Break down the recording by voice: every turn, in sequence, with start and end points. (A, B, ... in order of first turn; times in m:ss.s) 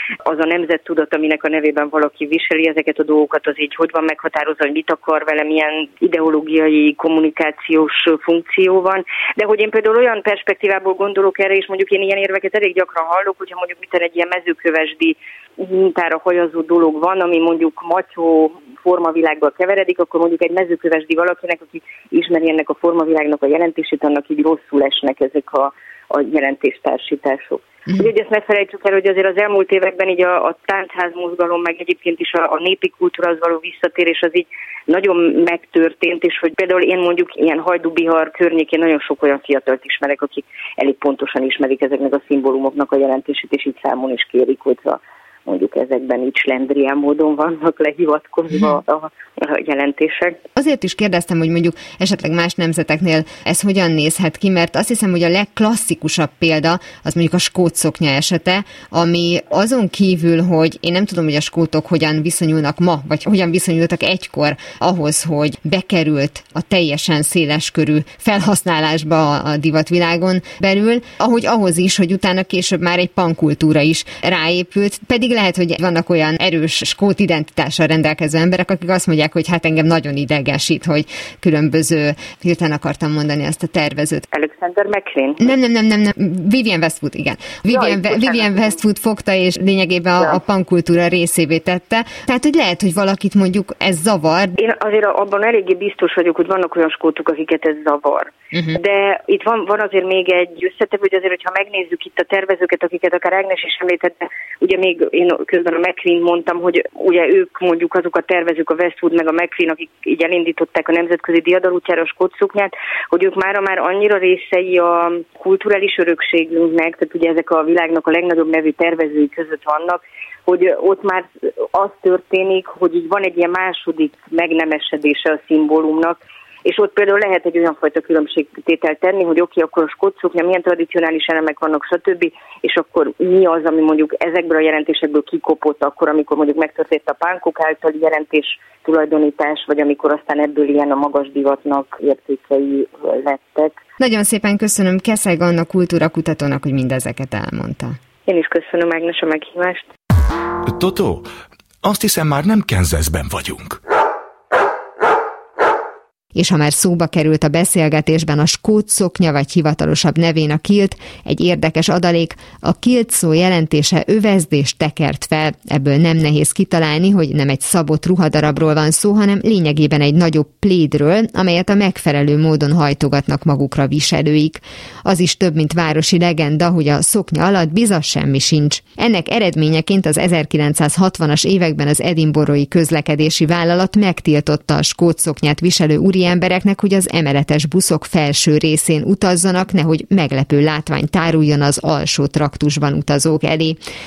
0:00.3-0:50.4 A
0:50.6-1:24.3 B
1:24.3-1:25.5 A
1:25.4-1:34.6 B
1:27.7-1:28.6 A
1:34.6-2:23.8 A
2:24.0-2:28.0 B
2:28.3-2:29.9 A
2:30.6-2:31.3 C
2:31.8-2:33.8 C
2:36.4-3:13.8 B